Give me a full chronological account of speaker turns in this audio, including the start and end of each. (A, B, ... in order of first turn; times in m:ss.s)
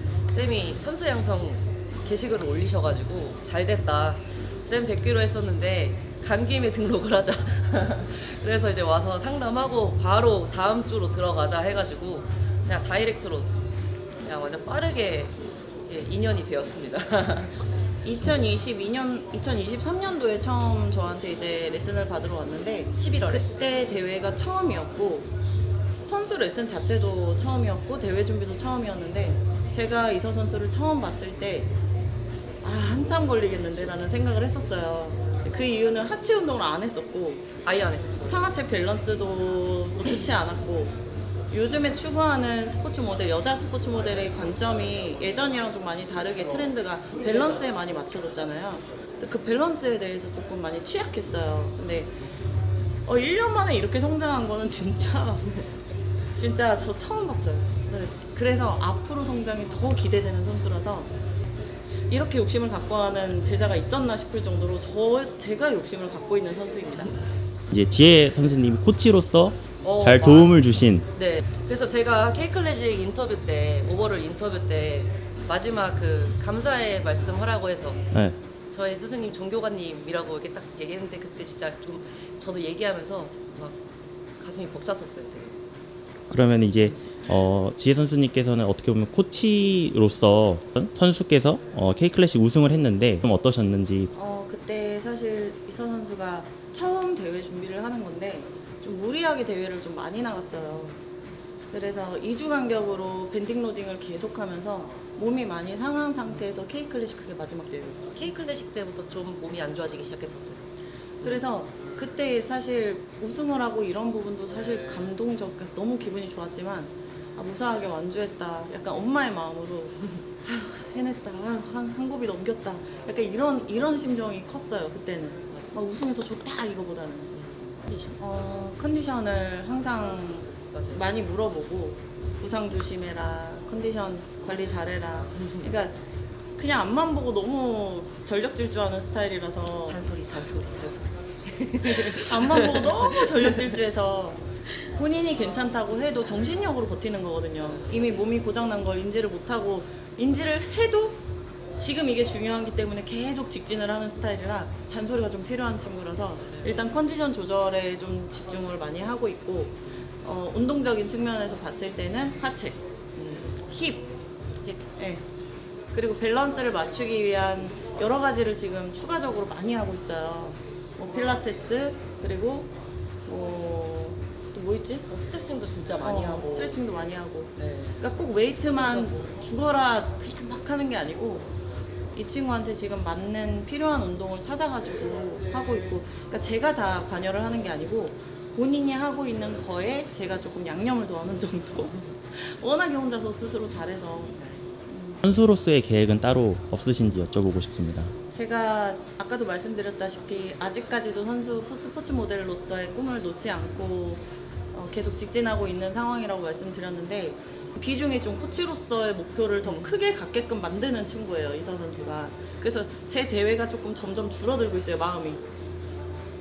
0:00.3-0:13.5 A
0:14.2-0:15.3 A
0:15.8-0:17.5 A
0:18.0-0:25.3 B
0:23.0-0:23.4 A
0:26.0-0:31.7 B
0:32.6-0:37.4 B
0:37.6-0:38.5 A
0:38.2-0:40.9 B
0:41.5-0:52.1 B
0:53.0-0:55.6 B
0:56.3-1:01.1 B
1:02.1-1:07.2 B
1:07.7-1:11.1 C
1:09.8-1:10.6 A
1:11.1-1:18.0 A
1:18.7-1:23.8 A
1:24.4-1:25.6 A
1:26.3-1:34.1 C
1:34.1-1:41.0 B
1:41.7-1:48.2 B
1:48.1-1:50.6 A
1:51.2-2:07.3 B
2:05.5-2:05.8 A
2:07.3-2:08.2 A
2:08.2-2:16.0 B
2:10.7-2:11.0 A
2:15.2-2:15.7 A
2:16.6-2:20.0 B
2:19.8-2:23.7 A
2:21.9-2:31.2 B
2:27.6-2:28.2 A
2:31.8-2:42.8 B
2:36.4-2:37.0 A
2:43.2-2:43.6 A
2:43.6-2:44.1 B
2:45.0-2:45.2 B
2:45.9-2:52.7 B
2:53.3-2:55.0 B
2:55.1-2:56.8 A
2:56.0-3:01.5 B
2:57.6-2:59.3 A
3:02.1-3:14.4 B
3:14.3-3:14.6 A
3:14.9-3:15.2 B
3:15.2-3:18.1 C
3:18.3-3:35.4 B